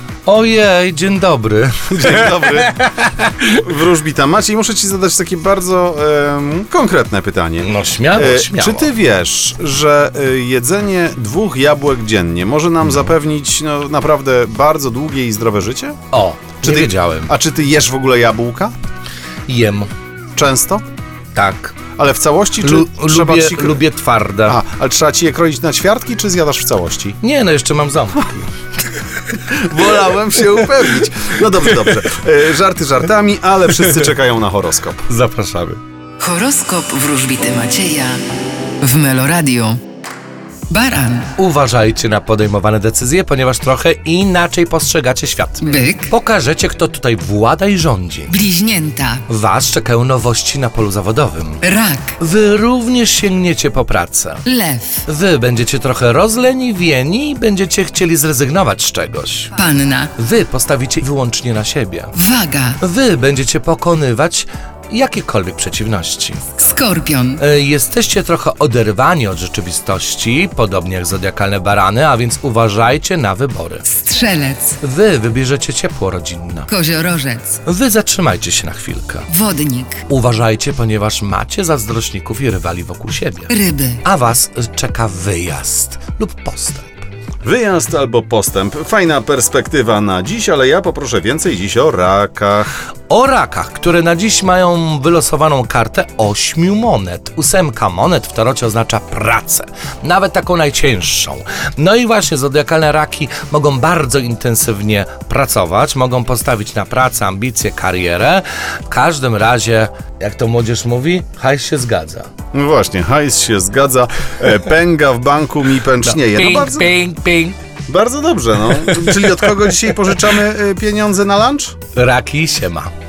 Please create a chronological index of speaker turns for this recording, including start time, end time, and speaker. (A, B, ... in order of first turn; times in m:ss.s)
0:00.2-0:03.5 A
0:01.9-0:02.8 B
0:03.4-0:16.0 B
0:07.6-0:08.9 A
0:16.1-0:17.3 A
0:16.6-0:18.7 B
0:19.5-0:19.9 A
0:20.4-0:20.8 B
0:21.4-0:21.8 A
0:22.0-0:23.8 B
0:22.6-0:24.6 A
0:24.5-0:27.2 B
0:27.2-0:28.5 A
0:29.3-0:35.1 B
0:30.4-0:30.7 A
0:31.7-0:32.0 A
0:35.1-0:35.8 A
0:36.2-0:38.2 C
0:38.8-0:39.8 C
0:40.7-0:41.4 C
0:41.4-0:48.4 A
0:45.6-0:46.1 C
0:48.3-0:49.3 C
0:49.3-0:51.6 A
0:51.6-0:52.2 C
0:52.2-0:54.4 A
0:54.4-0:55.1 C
0:55.1-0:59.6 A
0:59.6-1:00.2 C
1:00.2-1:02.2 A
1:02.2-1:02.8 C
1:02.8-1:06.6 A
1:06.6-1:07.4 C
1:07.4-1:13.8 A
1:13.9-1:14.8 C
1:14.8-1:16.7 A
1:16.7-1:17.6 C
1:17.6-1:19.3 A
1:19.3-1:20.0 C
1:20.1-1:27.1 A
1:23.5-1:24.0 C
1:27.4-1:32.8 B
1:33.1-1:52.3 A
1:52.5-1:57.0 B
1:56.0-1:57.6 A
1:57.9-2:01.8 B
1:58.7-2:00.3 A
2:02.0-2:02.9 A